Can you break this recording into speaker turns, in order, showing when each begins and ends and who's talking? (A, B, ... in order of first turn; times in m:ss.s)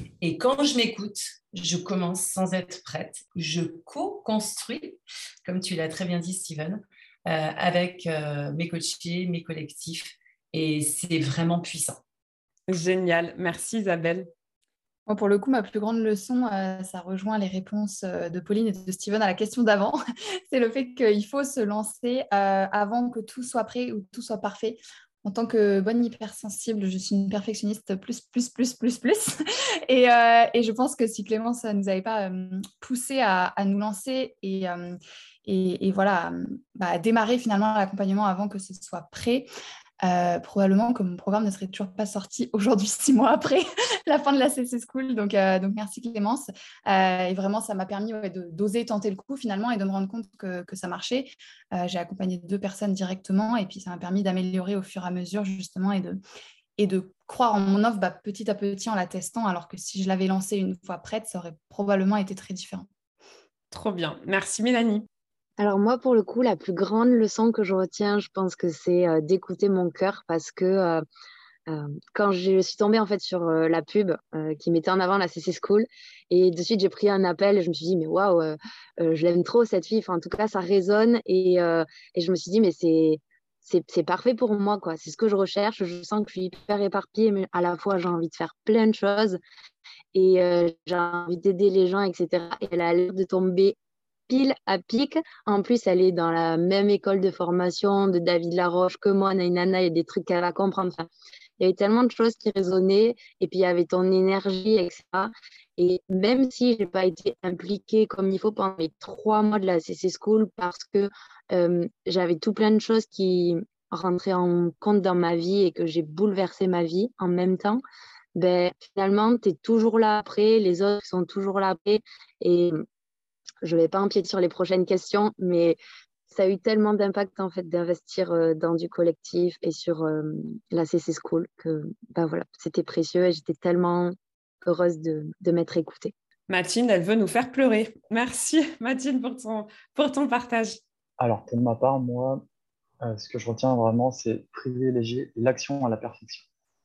0:00.2-0:12.0 A
0:12.7-0:14.3 B
0:15.1-0:39.5 C
0:40.0-0:56.2 C
0:56.8-1:02.9 C
1:03.7-1:05.0 B
1:05.6-1:11.0 D
1:11.7-1:29.4 D
1:30.1-1:33.7 D
1:34.3-1:41.1 D
1:41.6-1:57.8 D
1:58.3-2:02.8 D
2:03.6-2:05.8 D
2:06.3-2:16.1 D
2:16.5-2:20.8 B
2:21.2-2:22.4 E
2:23.0-2:26.4 E